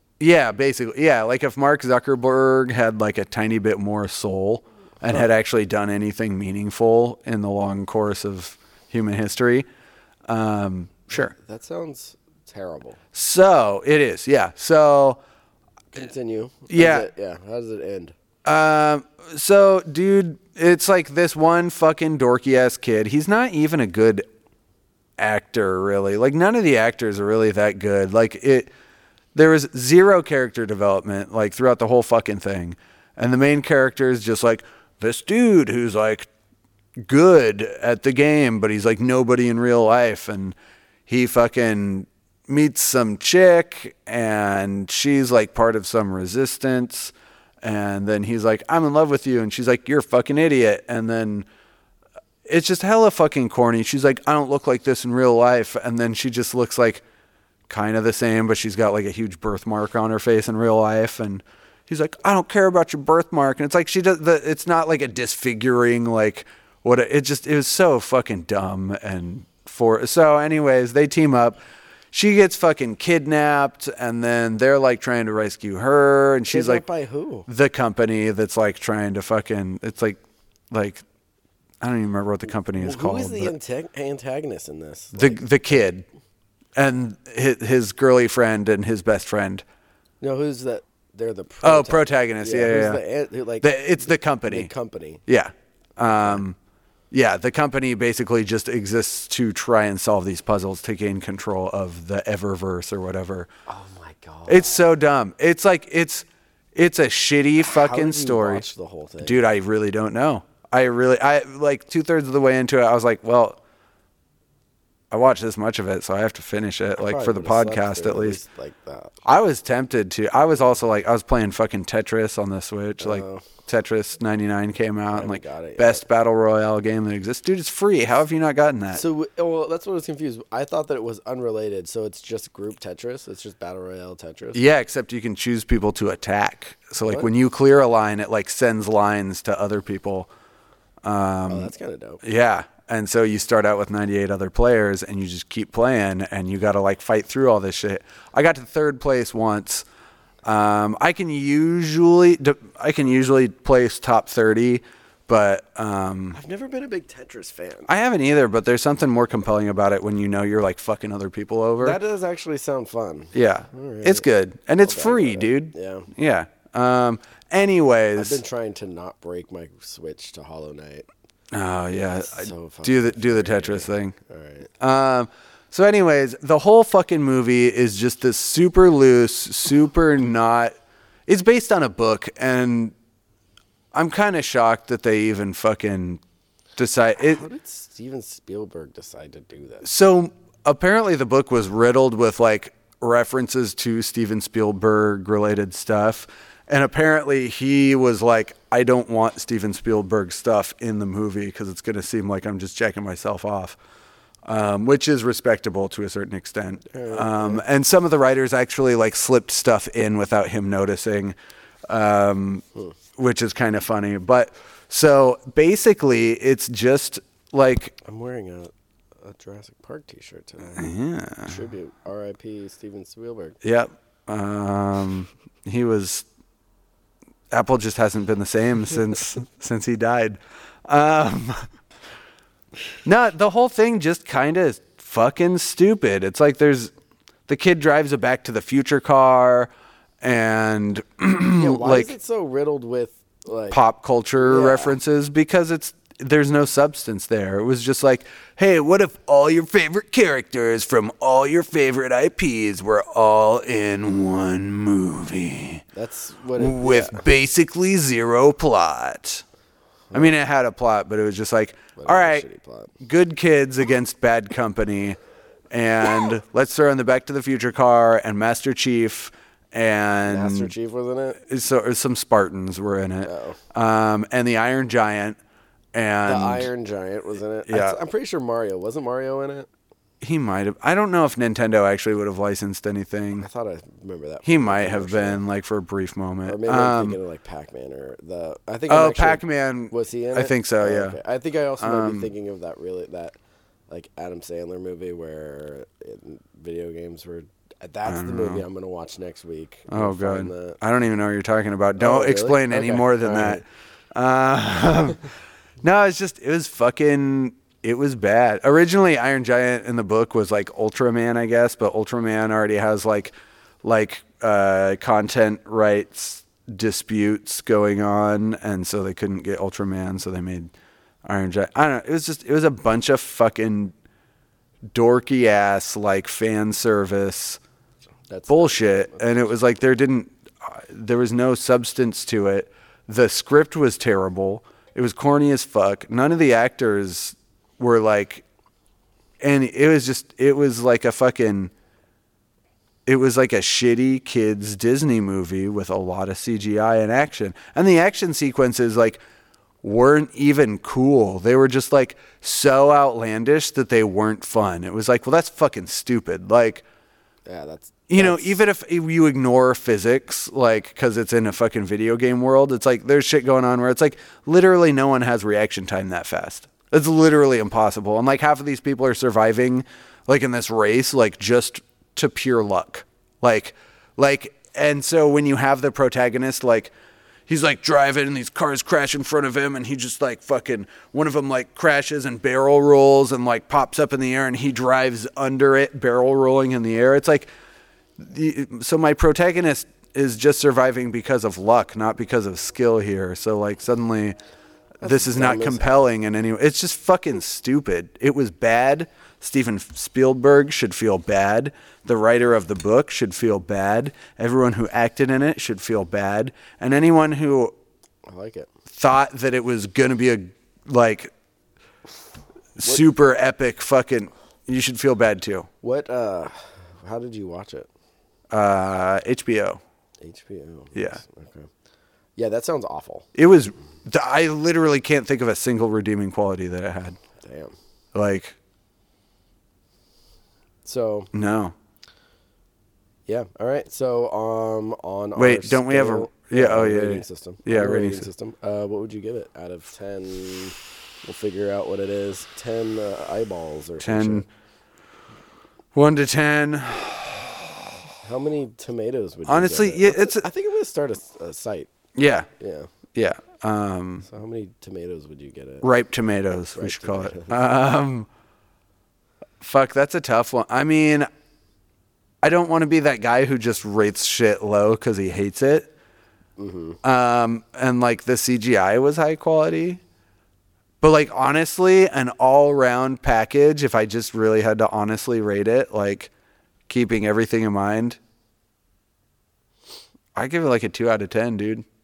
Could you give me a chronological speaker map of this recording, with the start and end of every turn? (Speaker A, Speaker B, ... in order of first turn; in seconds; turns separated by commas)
Speaker A: 0.2-9.7, Speaker A: 10.3-11.3, Speaker B: 11.1-13.0, Speaker A: 13.1-15.2, Speaker B: 15.9-18.1, Speaker A: 16.7-17.1, Speaker A: 18.4-24.3, Speaker A: 25.2-28.7, Speaker A: 29.3-36.3, Speaker A: 37.0-40.6, Speaker A: 41.1-51.5, Speaker A: 52.5-57.0, Speaker A: 57.7-71.6, Speaker A: 72.1-76.8, Speaker B: 76.5-77.5, Speaker A: 77.5-80.2, Speaker A: 80.7-81.0, Speaker A: 81.8-83.5, Speaker B: 82.8-85.5, Speaker A: 85.1-86.0, Speaker A: 86.8-89.7, Speaker B: 90.2-95.2, Speaker A: 91.6-93.0, Speaker A: 93.6-94.7, Speaker A: 95.3-96.6, Speaker B: 96.2-96.4, Speaker A: 97.1-103.5, Speaker B: 103.7-104.9, Speaker A: 104.5-108.7, Speaker B: 107.7-109.4, Speaker A: 109.2-113.6, Speaker A: 115.1-118.4, Speaker B: 117.0-119.1, Speaker A: 119.2-129.0, Speaker B: 123.0-123.5, Speaker B: 125.1-126.0, Speaker B: 128.9-134.6, Speaker A: 134.5-140.3, Speaker A: 141.0-141.7, Speaker B: 141.5-142.2, Speaker A: 142.2-149.8, Speaker A: 150.4-156.4, Speaker B: 156.3-157.9, Speaker A: 157.9-162.0, Speaker B: 161.8-164.2, Speaker A: 163.3-168.4, Speaker B: 164.8-166.1, Speaker B: 168.2-171.1, Speaker A: 171.5-174.2, Speaker B: 172.2-174.7, Speaker A: 174.8-180.8, Speaker A: 181.3-182.9, Speaker A: 183.9-186.2, Speaker A: 186.8-187.4, Speaker B: 187.2-189.9, Speaker A: 189.8-203.8, Speaker A: 204.4-211.4, Speaker B: 206.9-207.6, Speaker A: 211.9-212.6, Speaker A: 213.2-218.0, Speaker B: 218.0-223.6, Speaker A: 220.8-221.6, Speaker A: 223.6-226.2, Speaker A: 227.5-231.7, Speaker A: 233.1-236.9, Speaker A: 237.5-239.7, Speaker A: 240.2-242.1, Speaker B: 241.5-243.8, Speaker A: 243.7-255.8, Speaker B: 244.4-244.9, Speaker B: 255.9-257.2, Speaker A: 256.6-259.4, Speaker A: 260.1-262.4, Speaker B: 262.0-262.9, Speaker A: 263.0-265.2, Speaker A: 265.7-270.7, Speaker B: 270.3-271.4, Speaker A: 271.4-275.4, Speaker B: 273.2-273.6, Speaker A: 275.9-276.7, Speaker B: 276.3-279.7, Speaker A: 277.7-278.0, Speaker A: 280.2-283.5, Speaker B: 283.4-285.4, Speaker A: 284.4-287.2, Speaker B: 286.5-293.4, Speaker A: 288.9-291.2, Speaker A: 291.8-292.3, Speaker B: 293.9-300.8, Speaker A: 298.1-298.6, Speaker A: 299.9-305.3, Speaker B: 302.0-303.6, Speaker A: 305.8-320.7, Speaker A: 321.2-323.9, Speaker A: 324.9-327.6, Speaker B: 328.3-329.5, Speaker A: 328.5-338.4, Speaker A: 339.4-341.7, Speaker A: 343.1-349.2, Speaker A: 349.8-356.8, Speaker B: 357.5-358.6, Speaker A: 358.1-376.9, Speaker A: 377.5-387.5, Speaker A: 388.2-394.4, Speaker B: 395.0-396.0, Speaker A: 395.0-407.8, Speaker B: 408.3-408.7, Speaker A: 408.9-411.3, Speaker A: 412.8-415.7, Speaker B: 415.8-417.9, Speaker A: 418.5-419.8, Speaker B: 420.2-421.7, Speaker A: 420.9-421.2, Speaker B: 422.4-423.3, Speaker A: 423.4-427.2, Speaker B: 427.4-427.7, Speaker A: 428.1-428.6, Speaker B: 430.9-431.3, Speaker A: 431.3-431.8, Speaker B: 433.3-444.4, Speaker A: 435.4-438.3, Speaker A: 444.0-444.5, Speaker A: 445.9-447.4, Speaker B: 448.2-451.9, Speaker A: 449.5-450.5, Speaker A: 452.1-452.5, Speaker B: 452.6-452.9, Speaker A: 453.1-454.3, Speaker B: 454.2-455.9, Speaker A: 455.8-458.3, Speaker B: 456.8-457.6, Speaker A: 459.6-461.3, Speaker A: 462.4-465.9, Speaker B: 466.6-467.0, Speaker A: 467.0-470.0, Speaker A: 471.0-476.3, Speaker A: 476.9-478.2, Speaker A: 480.4-481.9